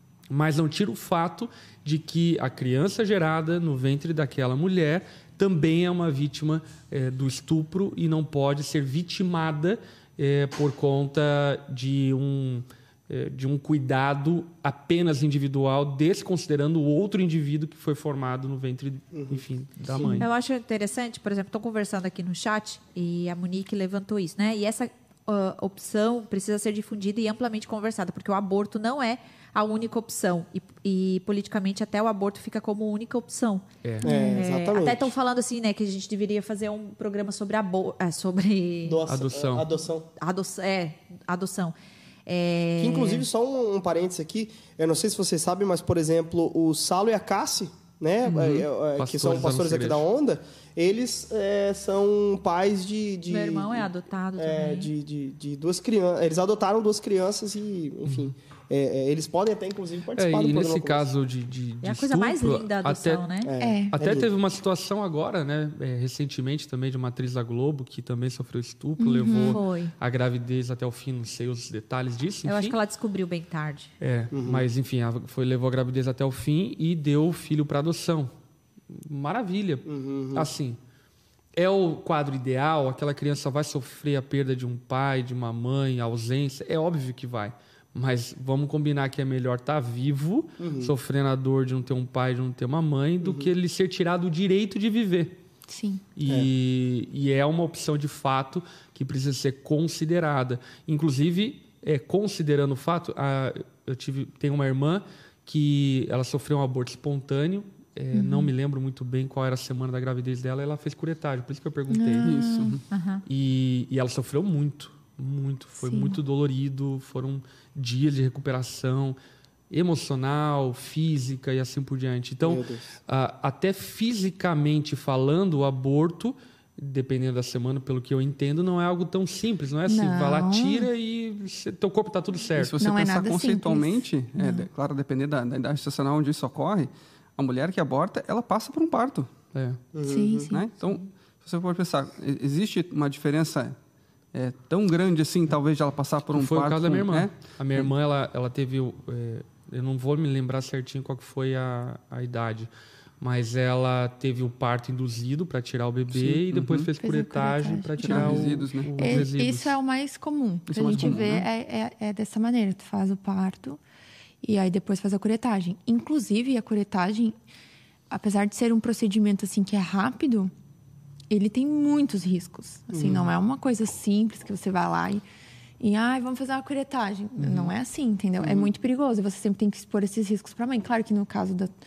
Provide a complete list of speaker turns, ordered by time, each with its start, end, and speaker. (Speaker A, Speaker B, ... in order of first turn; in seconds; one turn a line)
Speaker A: 0.3-20.3
Speaker B: 19.1-19.4
Speaker C: 20.2-39.0
Speaker A: 33.8-34.1
Speaker D: 34.0-34.4
Speaker B: 34.3-35.1
Speaker B: 38.8-40.1
Speaker A: 39.1-39.7
Speaker C: 40.2-41.8
Speaker C: 42.3-43.2
Speaker B: 42.8-61.0
Speaker A: 48.3-50.0
Speaker C: 53.3-54.9
Speaker A: 58.1-58.3
Speaker A: 60.2-63.2
Speaker C: 61.8-63.5
Speaker B: 63.4-64.3
Speaker D: 63.6-64.0
Speaker A: 63.9-72.8
Speaker D: 69.0-69.6
Speaker C: 69.3-69.9
Speaker C: 72.5-73.9
Speaker A: 74.0-78.3
Speaker B: 74.3-74.7
Speaker A: 78.9-80.8
Speaker B: 79.9-80.5
Speaker A: 81.5-95.4
Speaker B: 90.6-90.9
Speaker B: 93.2-93.5
Speaker D: 95.7-96.0
Speaker A: 96.2-112.6
Speaker D: 108.1-108.5
Speaker D: 111.9-112.8
Speaker E: 112.2-112.8
Speaker C: 112.9-113.2
Speaker A: 113.3-119.2
Speaker D: 115.8-116.2
Speaker A: 119.7-132.8
Speaker B: 122.4-122.8
Speaker D: 129.9-130.9
Speaker E: 132.6-139.3
Speaker D: 132.8-134.7
Speaker A: 139.5-139.8
Speaker B: 139.9-140.5
Speaker D: 140.1-140.7
Speaker E: 140.5-143.8
Speaker E: 144.3-147.9
Speaker A: 146.3-152.7
Speaker A: 153.2-159.8
Speaker E: 156.1-156.9
Speaker D: 157.0-163.8
Speaker E: 158.0-159.3
Speaker E: 160.7-161.5
Speaker A: 160.9-161.4
Speaker D: 164.4-167.4
Speaker D: 168.1-170.5
Speaker D: 171.3-175.2
Speaker B: 172.9-173.3
Speaker D: 175.8-181.7
Speaker A: 177.4-177.7
Speaker B: 178.4-178.7